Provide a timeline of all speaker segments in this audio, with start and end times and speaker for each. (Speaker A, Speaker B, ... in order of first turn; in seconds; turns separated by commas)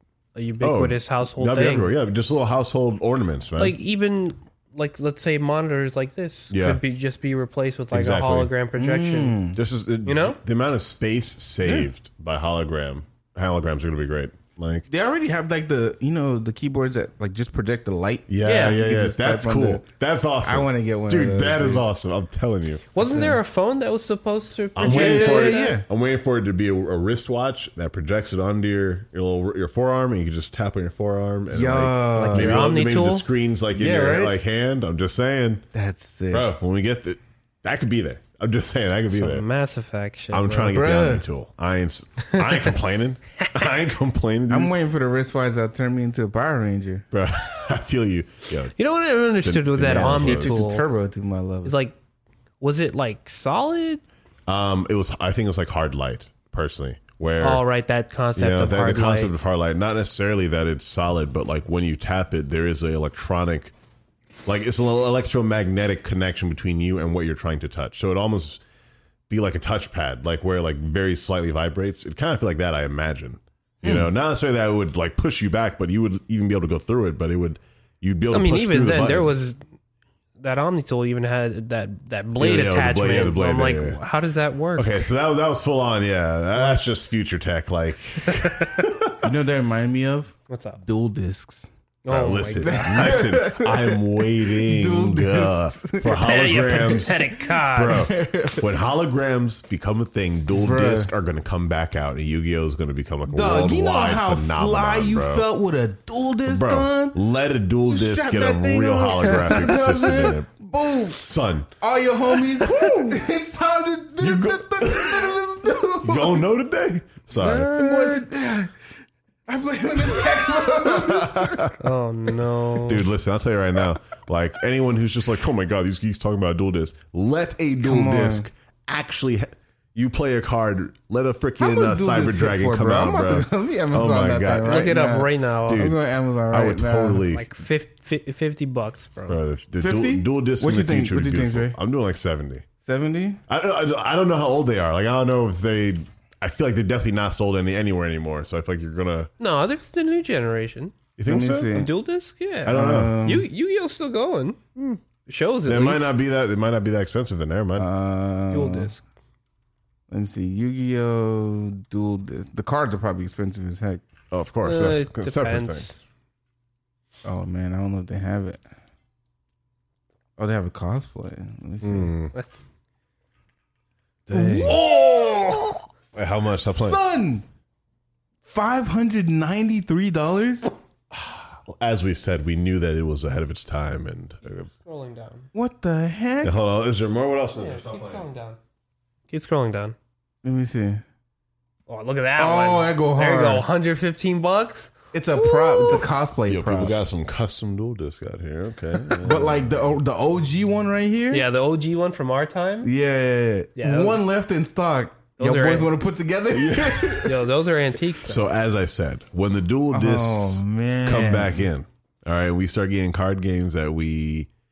Speaker A: 0.3-1.9, Speaker B: 0.6-3.8, Speaker A: 3.6-9.4, Speaker B: 6.5-6.8, Speaker B: 7.9-8.5, Speaker C: 8.8-9.6, Speaker B: 9.6-14.9, Speaker A: 10.0-10.4, Speaker C: 11.6-11.9, Speaker C: 14.9-19.8, Speaker B: 18.3-22.9, Speaker A: 18.4-18.8, Speaker C: 20.4-21.9, Speaker A: 22.9-25.8, Speaker C: 23.0-23.4, Speaker B: 24.8-35.6, Speaker C: 24.8-25.9, Speaker C: 31.5-32.7, Speaker A: 32.1-33.3, Speaker C: 33.7-34.4, Speaker C: 35.7-36.5, Speaker B: 36.3-39.4, Speaker A: 39.1-40.8, Speaker B: 40.3-44.7, Speaker C: 40.7-41.2, Speaker C: 44.5-47.1, Speaker B: 47.1-48.7, Speaker A: 48.8-50.8, Speaker B: 49.4-50.6, Speaker C: 49.9-51.8, Speaker A: 51.6-51.9, Speaker A: 52.6-54.0, Speaker B: 54.5-57.6, Speaker A: 57.4-59.3, Speaker B: 58.4-63.7, Speaker B: 64.5-68.6, Speaker B: 69.3-79.3, Speaker C: 73.8-74.1, Speaker A: 78.3-79.6, Speaker A: 80.4-85.0, Speaker B: 82.4-84.0, Speaker B: 84.8-89.3, Speaker A: 88.3-88.9, Speaker C: 89.2-91.7, Speaker A: 90.5-90.8, Speaker A: 92.0-93.3, Speaker B: 92.1-105.5, Speaker C: 92.6-96.2, Speaker A: 96.2-98.1, Speaker C: 97.9-98.7, Speaker C: 100.5-101.1, Speaker C: 103.3-107.2, Speaker B: 106.5-110.5, Speaker C: 107.9-111.3, Speaker B: 111.1-111.7, Speaker C: 111.8-116.5, Speaker B: 112.7-112.9, Speaker B: 114.2-115.3, Speaker B: 116.0-117.7, Speaker C: 117.3-118.7, Speaker A: 117.8-118.2, Speaker C: 119.5-121.7, Speaker B: 120.6-121.8, Speaker A: 121.8-123.1, Speaker B: 122.8-134.9, Speaker C: 127.8-128.5, Speaker C: 131.6-137.3, Speaker A: 134.6-135.9, Speaker B: 135.7-136.0, Speaker B: 136.5-137.5, Speaker A: 137.3-139.4, Speaker B: 139.3-142.6, Speaker C: 139.8-141.8, Speaker C: 142.8-143.4, Speaker B: 143.5-149.3, Speaker A: 149.4-150.9, Speaker B: 151.2-151.7, Speaker C: 151.2-151.9, Speaker A: 151.7-154.6, Speaker B: 152.6-153.2, Speaker C: 152.7-153.5, Speaker B: 154.8-155.0, Speaker A: 155.2-156.1, Speaker B: 155.7-157.9, Speaker C: 157.8-158.9, Speaker A: 158.5-159.0, Speaker C: 160.1-164.0, Speaker B: 164.3-165.9, Speaker A: 164.6-166.0, Speaker C: 167.2-168.6, Speaker C: 170.4-172.1, Speaker B: 171.8-172.3, Speaker A: 172.3-172.6, Speaker B: 174.3-174.8, Speaker C: 174.3-175.8, Speaker B: 176.1-177.0, Speaker C: 176.6-177.4, Speaker C: 178.4-180.7, Speaker B: 181.1-184.7, Speaker A: 184.7-185.5, Speaker C: 185.5-186.6, Speaker B: 186.4-188.2, Speaker A: 187.6-188.6, Speaker A: 189.3-189.9, Speaker C: 190.4-191.0, Speaker A: 191.9-196.1, Speaker C: 192.4-193.7, Speaker C: 195.1-196.9, Speaker B: 196.5-199.7, Speaker C: 199.2-201.4, Speaker A: 201.3-202.9, Speaker C: 202.8-207.4, Speaker A: 203.8-204.2, Speaker A: 205.4-205.9, Speaker B: 206.5-207.3, Speaker A: 207.2-208.5, Speaker B: 208.2-214.5, Speaker C: 209.9-211.7